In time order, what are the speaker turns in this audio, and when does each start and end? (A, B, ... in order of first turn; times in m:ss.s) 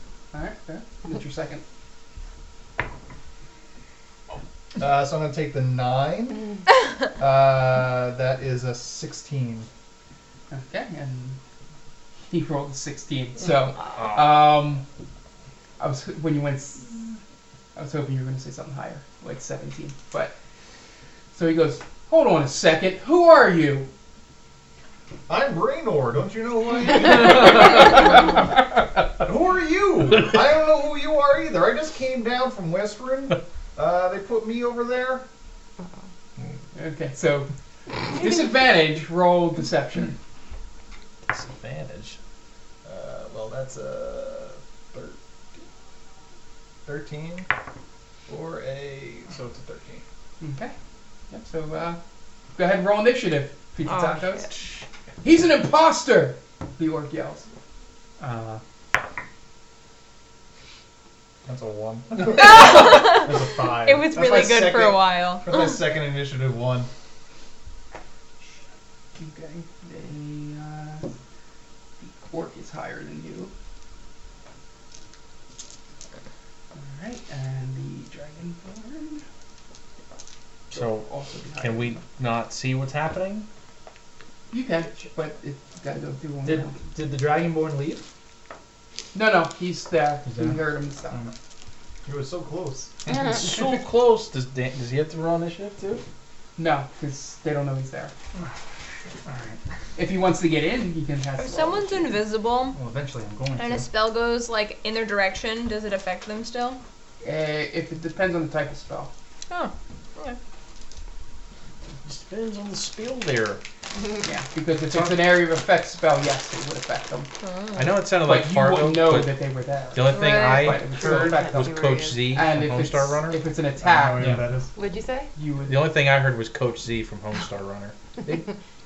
0:00.3-0:01.6 A
0:04.8-0:06.5 B
0:07.1-0:09.7 B
0:10.5-0:11.4 A
0:12.3-0:14.8 A
0:13.8-0:14.5 C
0:15.8-0:17.2 A
0:17.7-0:20.3 A
0:21.3-0:23.9 A
0:25.3-0:28.2 B
0:29.2-0:35.2 B
0:36.7-0:37.5 A
0:38.0-0:40.2 A
0:41.3-0:42.2 C
0:42.8-0:45.2 B
0:46.8-0:47.5 B
0:48.3-0:50.0 B
0:50.4-0:50.7 A
0:51.3-0:52.0 A
0:52.6-0:54.5 A
0:53.8-0:54.5 D
0:55.2-0:57.5 A
0:58.2-0:58.6 E
1:01.4-1:06.9 B
1:02.3-1:05.8 D
1:09.2-1:11.0 A
1:12.0-1:13.5 A
1:16.8-1:19.2 A
1:20.7-1:23.5 C
1:20.7-1:22.0 A
1:24.5-1:26.8 A
1:26.4-1:28.0 E
1:29.1-1:31.2 A
1:30.2-1:31.3 E
1:32.0-1:32.9 B
1:33.1-1:36.0 C
1:36.6-1:38.1 A
1:39.2-1:39.6 E
1:40.0-1:42.1 A
1:41.4-1:42.8 D
1:42.7-1:43.9 E
1:43.6-1:46.8 D
1:47.2-1:49.1 A
1:49.5-1:50.4 D
1:52.0-1:53.6 C
1:54.2-1:57.3 A
1:57.4-1:58.0 D
1:57.7-1:59.4 C
1:58.2-2:01.7 A
1:59.9-2:03.3 C
2:00.2-2:00.6 D
2:00.7-2:02.2 F
2:02.3-2:04.4 A
2:03.8-2:04.7 B
2:04.2-2:04.4 E
2:04.7-2:05.3 F
2:05.4-2:05.9 A
2:05.6-2:08.3 C